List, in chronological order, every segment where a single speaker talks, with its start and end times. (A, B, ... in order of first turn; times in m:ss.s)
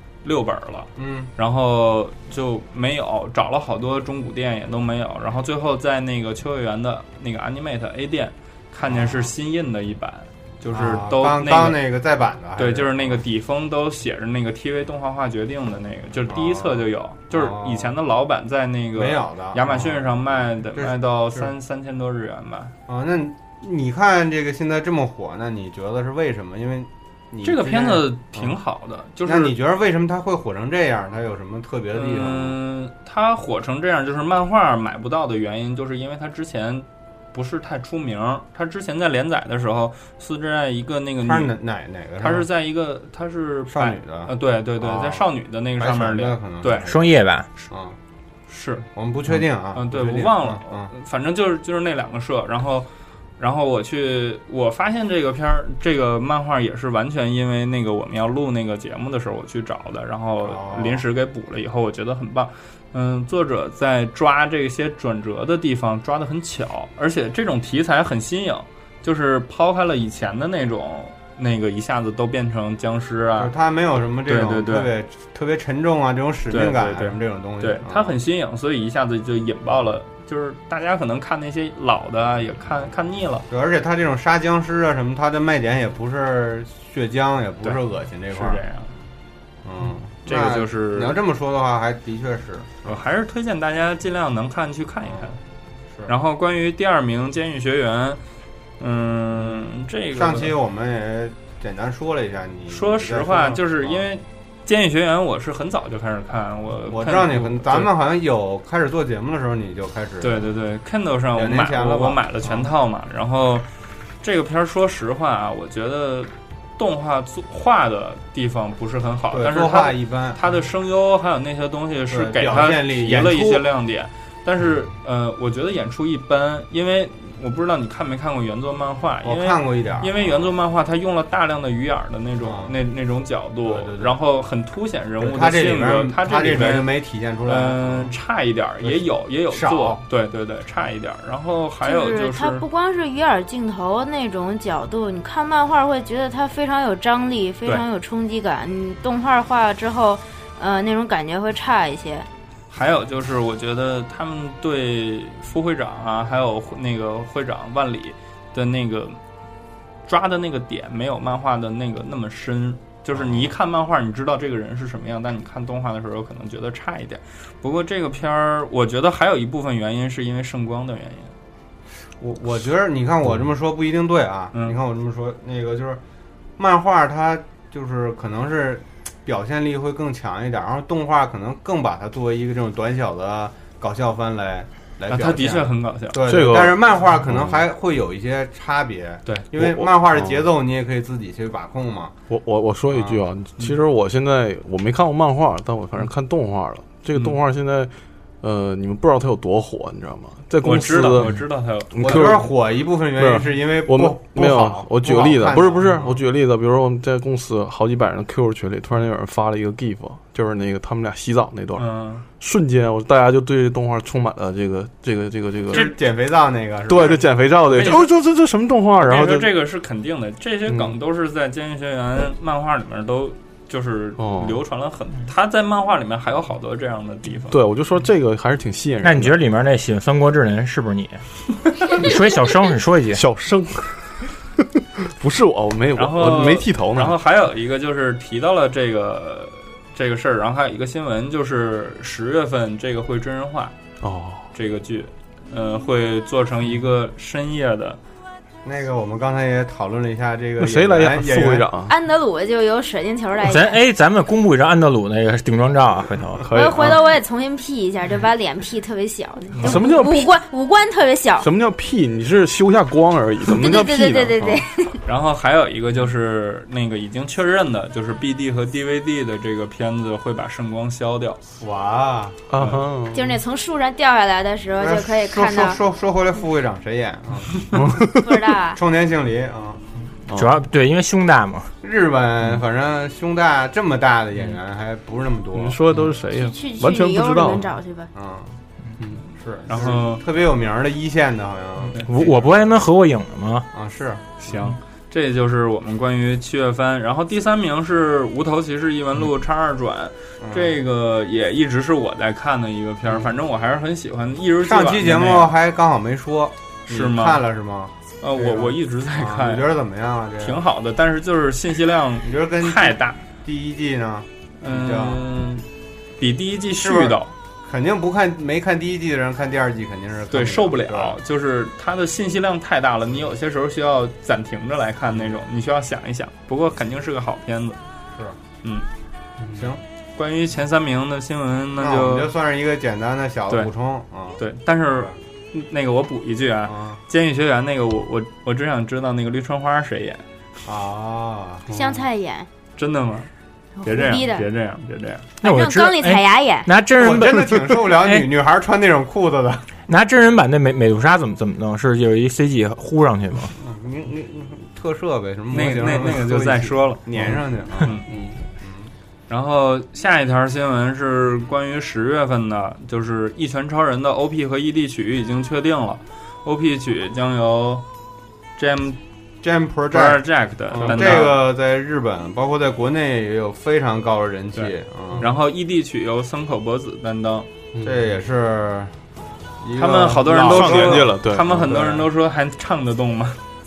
0:00.2-0:11.8 A
0:01.0-0:01.3 B
0:08.9-0:09.3 B
0:10.7-0:13.2 B
0:12.6-0:22.7 A
0:16.3-0:18.0 B
0:18.9-0:21.5 B
0:22.9-0:28.6 B
0:27.4-0:29.5 A
0:29.2-0:32.6 B
0:31.9-0:41.5 A
0:41.2-0:42.5 B
0:42.2-0:47.0 A
0:43.7-0:45.3 B
0:45.8-0:47.1 B
0:46.8-0:47.5 C
0:47.7-0:48.0 B
0:48.5-0:48.9 A
0:48.9-0:50.9 B
0:49.7-0:52.9 A
0:53.4-1:13.5 A
1:00.4-1:01.0 B
1:13.4-1:18.2 B
1:14.3-1:14.9 A
1:16.5-1:23.5 A
1:23.5-1:28.6 B
1:28.3-1:29.0 A
1:29.6-1:33.0 B
1:30.3-1:31.2 A
1:32.8-1:35.4 A
1:35.1-1:35.3 B
1:36.1-1:38.2 A
1:38.8-1:40.5 A
1:39.4-1:44.0 B
1:42.7-1:47.9 A
1:46.9-1:50.4 B
1:50.2-1:53.7 A
1:51.3-1:52.7 B
1:54.2-2:16.9 A
1:59.3-2:00.4 B
2:02.1-2:03.7 B
2:09.2-2:10.5 B
2:12.4-2:12.7 B
2:13.6-2:14.1 B
2:15.2-2:18.1 B
2:17.5-2:22.6 A
2:18.8-2:20.0 B
2:21.8-2:32.3 D
2:32.7-2:39.2 A
2:40.1-2:51.3 A
2:43.1-2:43.5 B
2:52.2-2:56.0 B
2:56.6-3:12.2 B
3:05.1-3:06.2 A
3:06.2-3:07.6 E
3:09.6-3:10.5 E
3:12.3-3:21.4 E
3:12.9-3:13.2 B
3:20.6-3:22.0 A
3:21.9-3:22.5 E
3:22.0-3:26.2 B
3:23.2-3:35.9 E
3:31.8-3:32.2 A
3:35.7-3:37.3 B
3:36.9-3:39.5 E
3:37.7-3:38.1 A
3:39.0-3:47.6 A
3:40.7-3:41.0 E
3:44.2-3:44.6 E
3:47.5-3:49.4 E
3:49.0-3:51.2 C
3:51.8-3:53.2 C
3:53.1-3:54.1 E
3:55.0-3:57.2 E
3:56.0-4:03.8 A
4:04.0-4:04.5 E
4:04.5-4:08.0 A
4:08.6-4:11.7 B
4:10.6-4:11.9 E
4:11.9-4:13.8 D
4:13.4-4:16.5 C
4:16.4-4:17.0 E
4:16.5-4:21.5 D
4:19.6-4:20.3 E
4:21.4-4:24.7 E
4:23.5-4:25.0 D
4:25.1-4:31.4 A
4:31.6-4:32.4 B
4:32.5-4:33.4 E
4:33.1-4:35.8 D
4:34.8-4:37.9 B
4:37.7-4:38.3 E
4:38.2-4:38.8 D
4:38.7-4:39.8 B
4:40.3-4:40.6 E
4:40.3-4:41.7 C
4:41.8-4:45.8 B
4:45.6-4:47.7 E
4:46.3-4:48.1 D
4:48.2-4:48.6 B
4:49.4-4:52.5 B
4:49.7-4:50.2 A
4:52.0-4:53.7 C
4:53.7-4:54.4 B
4:54.4-5:05.5 A
5:00.4-5:00.8 B
5:04.6-5:10.6 B
5:06.9-5:07.4 A
5:08.2-5:09.7 A
5:10.4-5:13.2 A
5:12.2-5:15.2 B
5:14.6-5:15.6 A
5:16.2-5:17.3 A
5:16.8-5:21.2 B
5:20.3-5:27.8 A
5:29.4-5:29.7 E
5:29.5-5:29.8 B
5:30.2-5:32.3 A
5:31.8-5:34.4 B
5:34.4-5:40.2 A
5:36.7-5:37.0 B
5:40.7-5:41.7 B
5:41.7-5:42.0 E
5:41.7-5:42.5 D
5:42.8-5:43.3 A
5:43.8-5:44.5 D
5:43.8-5:45.3 A
5:45.4-5:46.7 D
5:45.4-5:48.2 C
5:47.0-5:49.7 B
5:49.9-5:53.6 C
5:53.6-5:58.0 B
5:55.5-5:57.0 A
5:58.1-5:58.4 E
5:58.6-5:58.9 B
5:59.3-6:07.8 A
6:08.6-6:09.0 A
6:09.4-6:15.3 B
6:09.9-6:11.4 A
6:10.8-6:11.4 E
6:14.6-6:17.5 A
6:17.7-6:18.2 E
6:17.8-6:18.9 B
6:19.6-6:22.1 B
6:19.8-6:23.4 A
6:20.4-6:21.9 E